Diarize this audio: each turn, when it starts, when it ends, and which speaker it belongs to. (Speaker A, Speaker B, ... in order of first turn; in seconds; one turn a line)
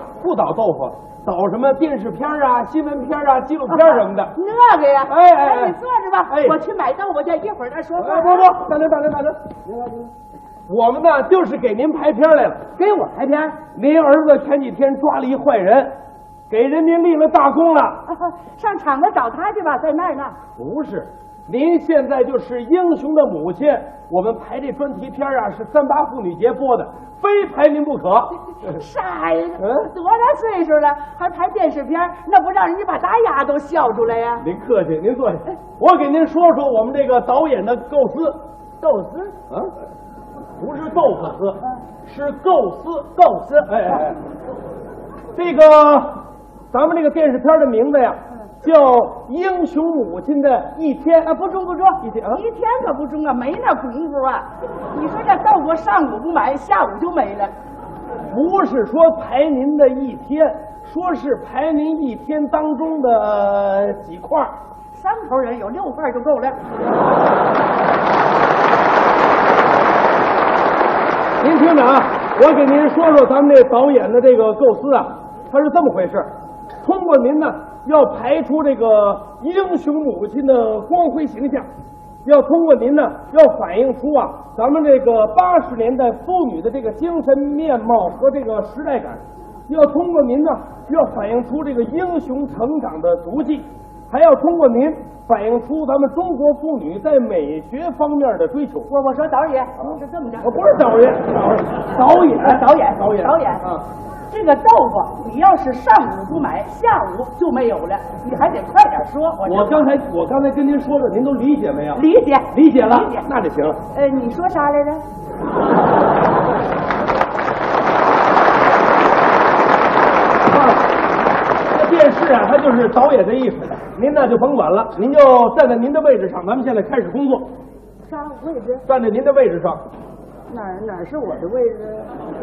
Speaker A: 0.2-4.3
Speaker B: 3.7-8.5
Speaker A: 5.1-5.7
Speaker A: 6.3-6.6
Speaker A: 8.0-10.1
Speaker A: 10.7-15.9
Speaker B: 12.8-13.5
Speaker A: 16.5-18.0
Speaker B: 18.1-20.4
Speaker A: 20.6-28.3
Speaker B: 28.7-34.5
Speaker A: 29.6-29.9
Speaker A: 34.4-38.5
Speaker B: 38.8-39.4
Speaker A: 40.6-44.2
Speaker B: 43.5-44.0
Speaker A: 45.4-51.3
Speaker B: 51.2-57.5
Speaker A: 52.0-52.4
Speaker A: 58.3-64.5
Speaker B: 64.9-66.6
Speaker A: 71.4-76.3
Speaker A: 76.8-81.7
Speaker A: 82.2-98.9
Speaker B: 98.9-100.7
Speaker A: 99.8-103.8
Speaker B: 102.2-103.6
Speaker B: 104.3-109.9
Speaker A: 109.5-113.8
Speaker B: 112.0-113.3
Speaker B: 113.9-115.0
Speaker A: 120.5-120.8
Speaker A: 121.7-127.5
Speaker B: 128.0-128.8
Speaker A: 128.9-129.8
Speaker B: 130.5-132.2